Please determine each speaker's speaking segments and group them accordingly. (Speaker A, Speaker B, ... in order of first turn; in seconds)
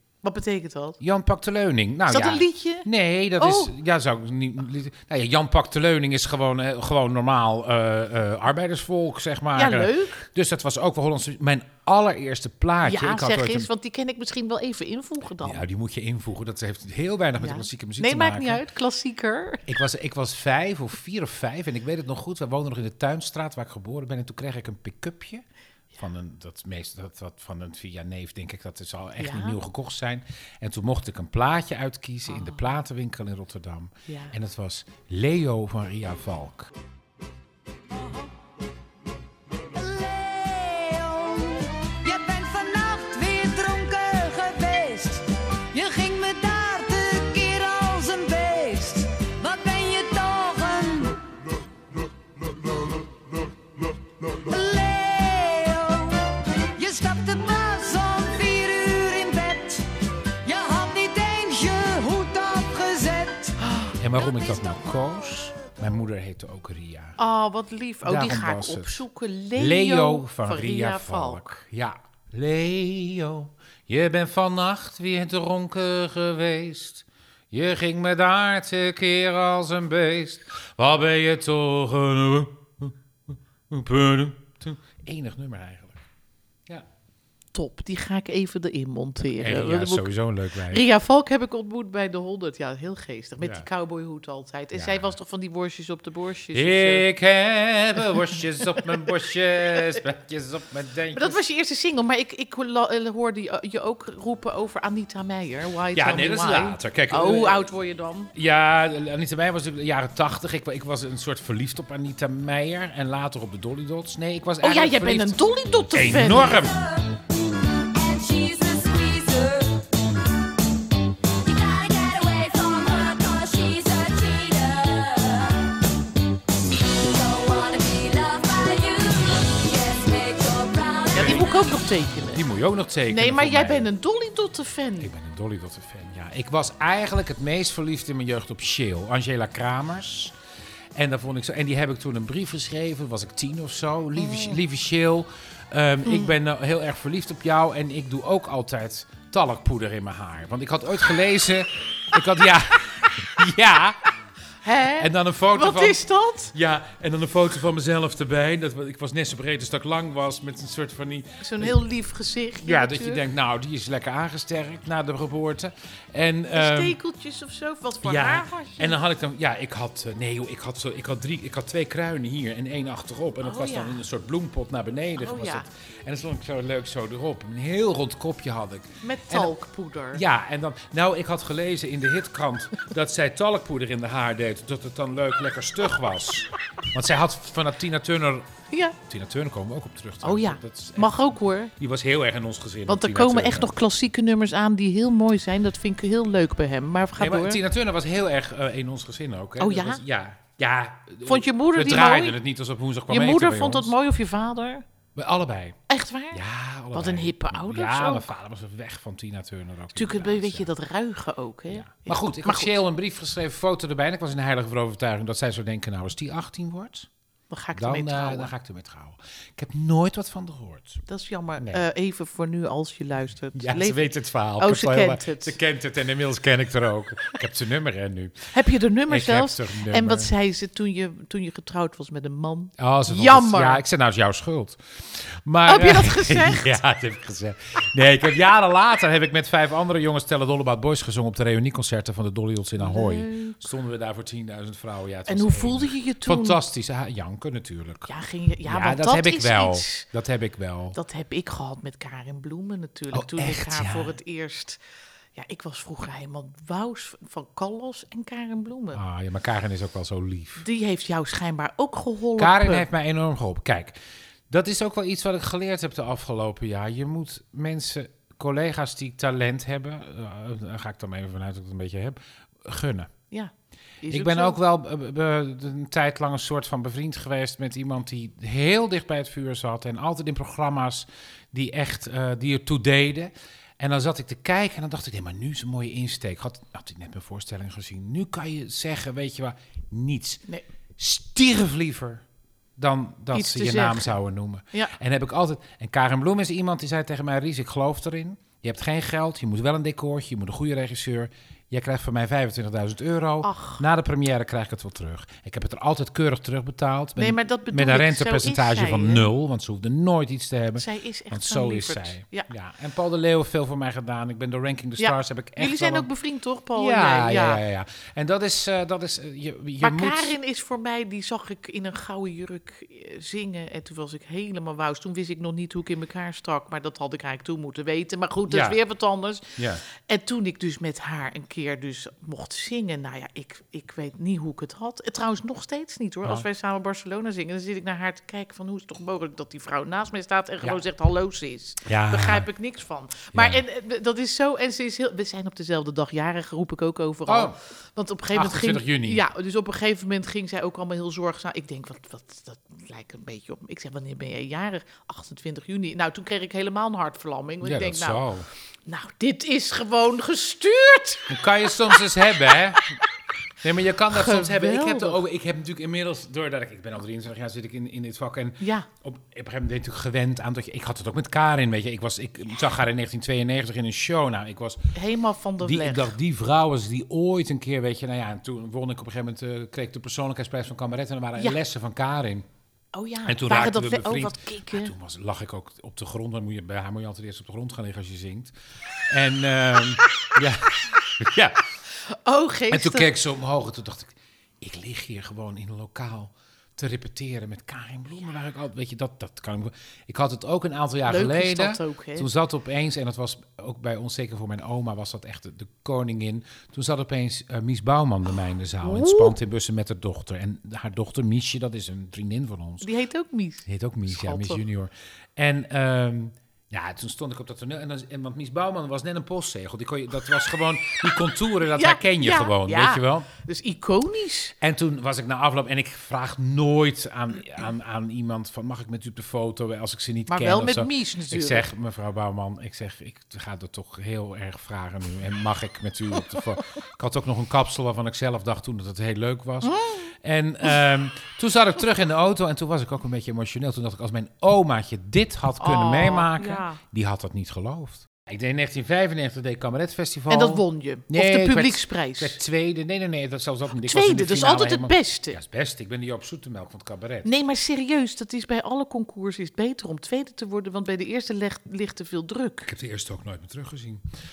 Speaker A: 0.2-1.0, 2.1-2.9, 3.4-3.7, 9.6-10.3, 12.8-15.6, 17.4-19.6, 29.2-29.6, 32.3-32.7, 34.1-34.3, 63.6-64.0, 67.2-71.6, 87.5-90.1, 90.7-97.1, 99.7-100.0, 101.1-108.3, 114.6-116.6, 131.1-132.4, 133.1-135.1, 144.2-144.6, 146.0-146.3, 154.6-156.5, 161.4-163.2, 166.5-169.0, 173.4-174.0, 175.2-175.7, 179.0-180.2, 188.7-188.9, 190.2-191.7, 192.9-197.6, 199.6-200.0, 201.2-202.4, 203.1-204.8, 205.9-206.4, 206.9-208.3, 209.9-212.8, 217.5-218.5, 221.1-224.0, 224.6-225.6, 228.5-233.8, 235.7-236.8, 242.8-243.6, 245.3-246.6, 248.1-250.1, 250.9-254.8, 255.3-259.0, 260.6-262.9, 273.3-274.6, 293.3-294.1, 303.4-303.8, 307.2-309.2, 310.8-312.5, 315.0-317.6, 319.8-358.2, 358.9-362.6, 364.1-365.2, 368.6-368.9, 374.9-376.1, 382.9-384.9, 392.0-393.1, 401.0-402.3, 408.8-409.3, 412.8-414.6, 421.7-424.5, 430.3-431.7, 439.6-440.1, 445.6-446.8, 450.3-452.4, 453.8-455.4, 457.2-462.7
Speaker B: 1.0-13.7, 15.4-18.6, 19.7-25.4, 26.0-36.7, 64.0-67.2, 68.0-69.0, 69.5-86.0, 89.3-90.8, 93.4-93.7, 94.7-95.1, 96.5-101.4, 105.9-107.6, 108.3-115.4, 115.9-116.8, 131.2-131.5, 132.3-133.9, 135.0-140.3, 140.9-154.0, 155.0-156.0, 156.5-161.8, 162.6-167.0, 168.0-179.5, 180.1-193.7, 197.2-203.9, 205.1-205.8, 206.3-210.7, 211.7-217.1, 217.7-221.0, 223.5-228.5, 229.1-230.3, 232.8-248.1, 248.6-251.0, 253.1-254.2, 258.9-260.6, 262.4-263.9, 264.5-273.1, 274.1-290.4, 291.0-292.2, 292.8-316.1, 316.7-320.4, 328.5-328.8, 329.6-329.8, 341.8-342.5, 343.3-343.6, 347.3-347.6, 348.3-349.2, 357.6-358.5, 361.3-363.0, 363.6-374.9, 375.6-382.4, 383.2-388.5, 389.1-391.6, 392.7-412.9, 413.6-423.3, 424.6-457.3, 462.6-464.1
Speaker C: 39.7-51.1, 54.4-59.8, 60.4-63.6
Speaker D: 116.5-117.1, 117.9-119.9, 121.4-125.8, 126.8-131.6